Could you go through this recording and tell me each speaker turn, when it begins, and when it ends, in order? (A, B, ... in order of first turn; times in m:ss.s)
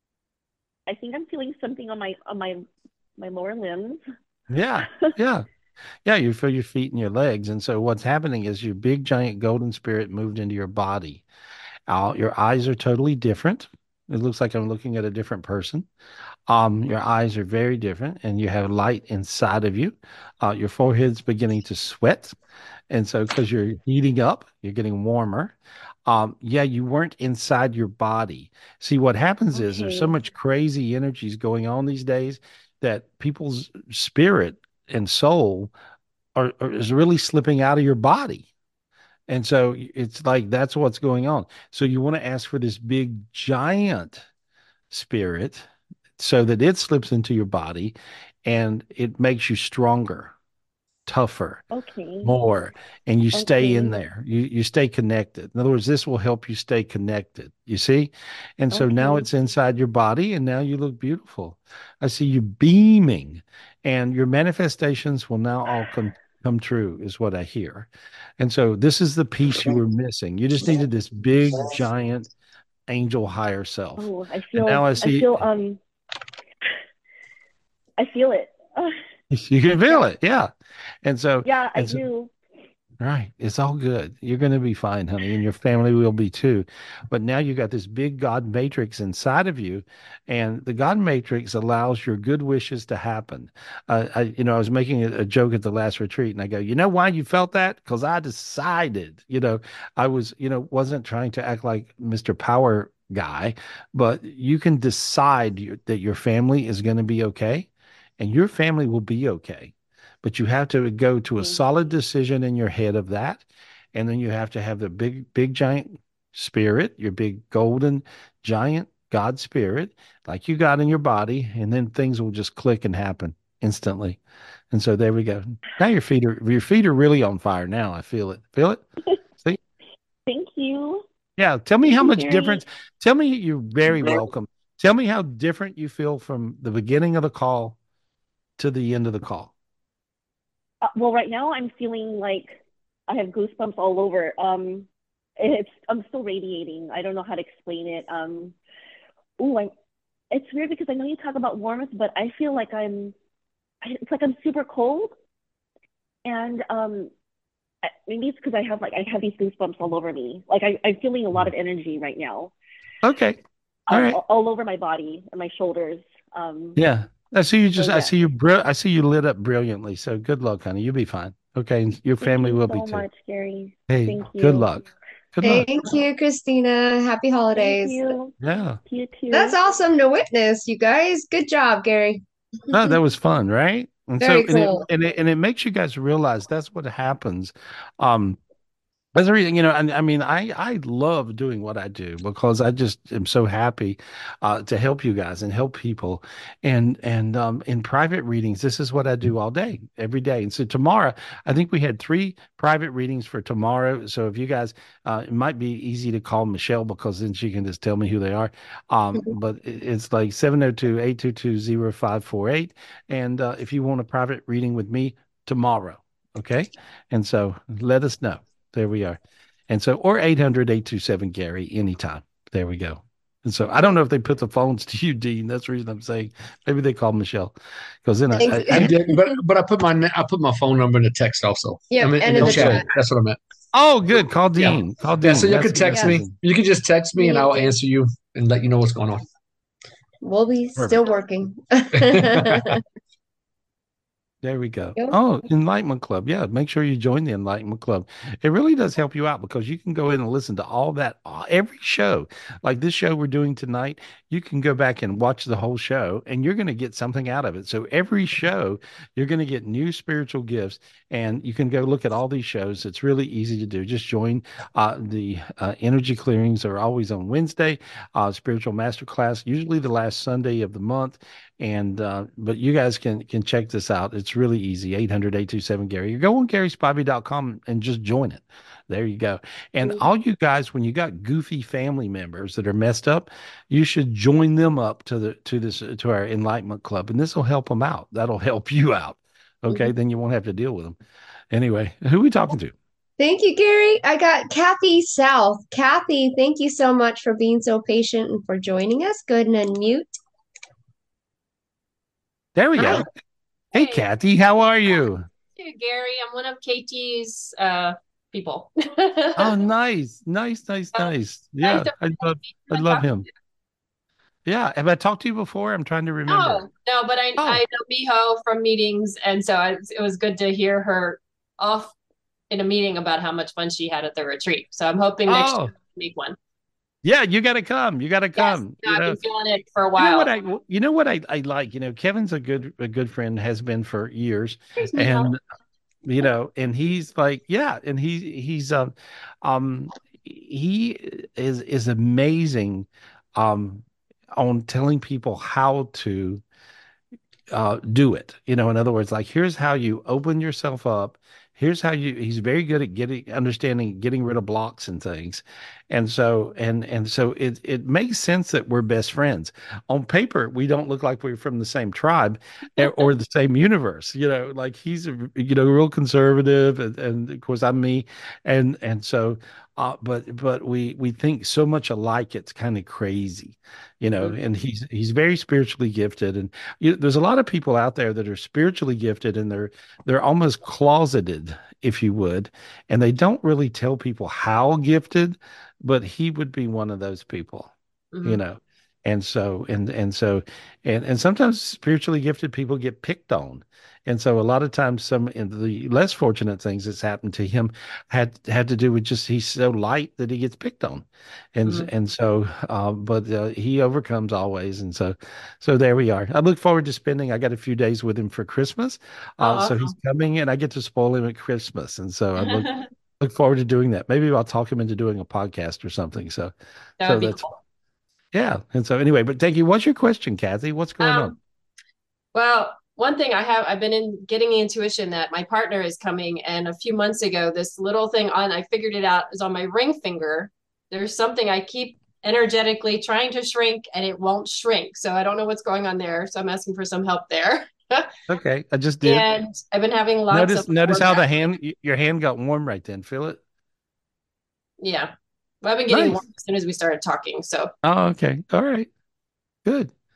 0:00.9-0:02.6 A
0:03.2-0:04.0 A
0:04.5-0:05.4 B
0:06.0-0:11.2 B
0:11.9-0:15.9 B
0:16.5-0:22.4 B
0:22.9-0:35.7 B
0:29.5-0:30.1 A
0:36.4-0:38.5 B
0:39.3-0:44.2 B
0:44.9-0:47.9 B
0:48.4-0:50.3 B
0:51.1-0:51.6 B
0:51.7-0:52.3 A
0:52.2-1:12.3 B
0:53.3-0:54.0 A
0:58.7-0:59.3 A
1:12.9-1:15.4 B
1:14.0-1:15.8 A
1:18.0-1:18.9 A
1:19.3-1:20.5 B
1:21.0-1:22.0 B
1:21.4-1:22.3 A
1:23.0-2:04.2 B
2:04.7-2:08.8 B
2:10.3-2:11.0 A
2:11.4-2:17.8 B
2:11.8-2:12.6 A
2:18.6-2:19.5 B
2:20.8-2:22.6 A
2:23.1-2:24.9 A
2:25.4-2:28.5 A
2:29.4-2:29.7 A
2:30.3-2:33.1 A
2:33.8-2:35.1 A
2:36.2-2:37.1 A
2:38.1-2:42.5 A
2:43.0-2:44.2 B
2:43.9-2:46.8 A
2:46.8-2:53.1 B
2:47.8-2:48.1 A
2:52.2-2:54.8 A
2:53.9-2:54.8 B
2:55.3-2:55.7 B
2:55.4-2:58.1 C
2:57.6-2:58.3 A
2:58.4-2:58.8 B
2:58.8-2:59.6 A
2:59.3-3:02.2 C
3:02.7-3:08.4 B
3:04.2-3:04.8 C
3:09.1-3:47.5 B
3:48.0-3:49.0 B
3:48.4-3:49.3 C
3:48.6-3:53.4 D
3:51.9-3:52.9 C
3:52.4-3:52.7 B
3:53.7-3:56.4 B
3:54.6-3:59.2 D
3:55.8-3:56.2 C
3:57.2-3:57.7 C
4:00.2-4:02.8 C
4:01.9-4:02.8 D
4:04.4-4:51.0 B
4:51.5-4:52.7 B
4:53.2-5:00.1 C
5:02.6-5:03.1 B
5:03.7-5:04.1 E
5:03.7-5:05.3 B
5:05.6-5:08.7 E
5:09.4-5:13.3 B
5:10.9-5:13.2 E
5:14.4-5:16.7 B
5:16.3-5:21.9 E
5:17.4-5:17.6 B
5:22.5-5:26.4 E
5:25.3-5:25.7 B
5:27.0-5:29.2 B
5:28.4-5:30.3 E
5:30.0-5:35.4 B
5:34.8-5:35.3 E
5:36.0-5:43.8 B
5:44.4-5:46.4 B
5:47.5-6:52.7 B
6:28.1-6:28.4 E
6:49.4-6:49.9 E
6:52.4-6:52.8 E
6:53.2-6:57.4 B
6:57.0-6:57.5 E
6:58.3-7:01.4 B
7:01.0-7:01.4 E
7:02.3-7:18.1 E
7:18.3-7:19.3 B
7:19.0-7:21.4 E
7:20.3-7:23.4 B
7:24.8-7:25.1 E
7:25.6-7:27.7 E
7:25.9-7:26.2 B
7:27.8-7:28.9 B
7:29.6-7:29.9 B